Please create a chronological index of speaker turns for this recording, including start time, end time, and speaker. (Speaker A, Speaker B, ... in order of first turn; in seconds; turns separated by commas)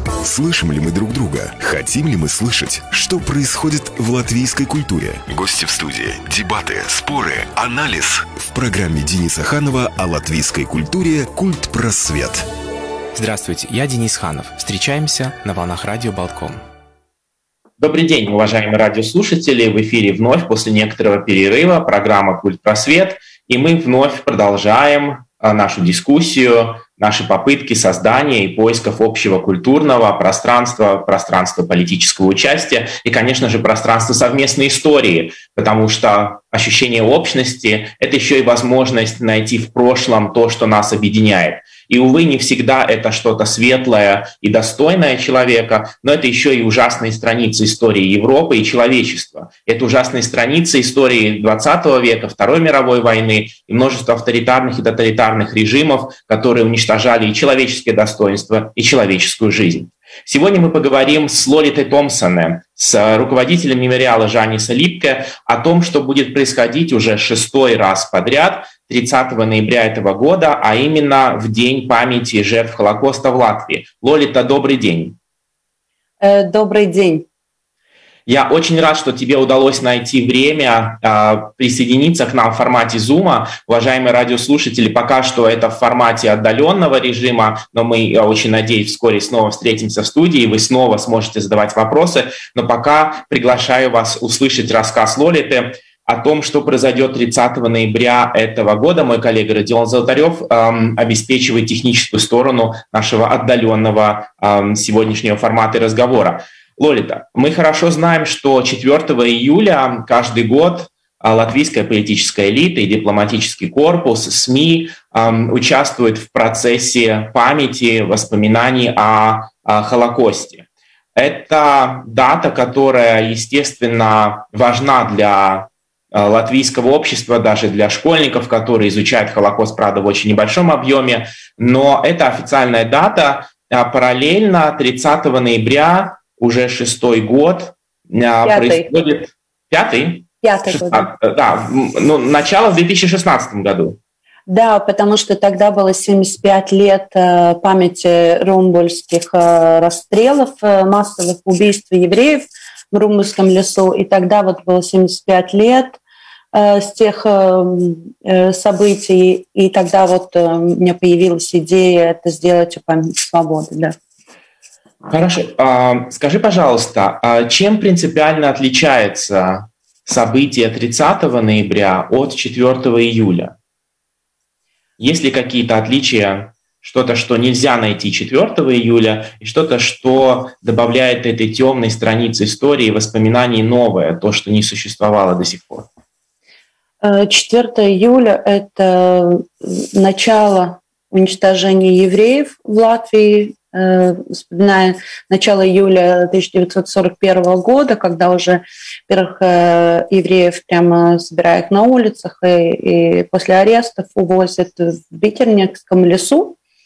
Speaker A: 0.2-12.4, Speaker B: 13.1-16.6, Speaker C: 17.8-75.2, Speaker D: 76.2-77.2, Speaker C: 78.3-144.0, Speaker D: 138.4-138.9, Speaker D: 140.4-141.1, Speaker D: 144.5-156.0, Speaker D: 156.5-163.9, Speaker C: 165.1-173.5, Speaker C: 175.0-185.9, Speaker D: 187.0-206.6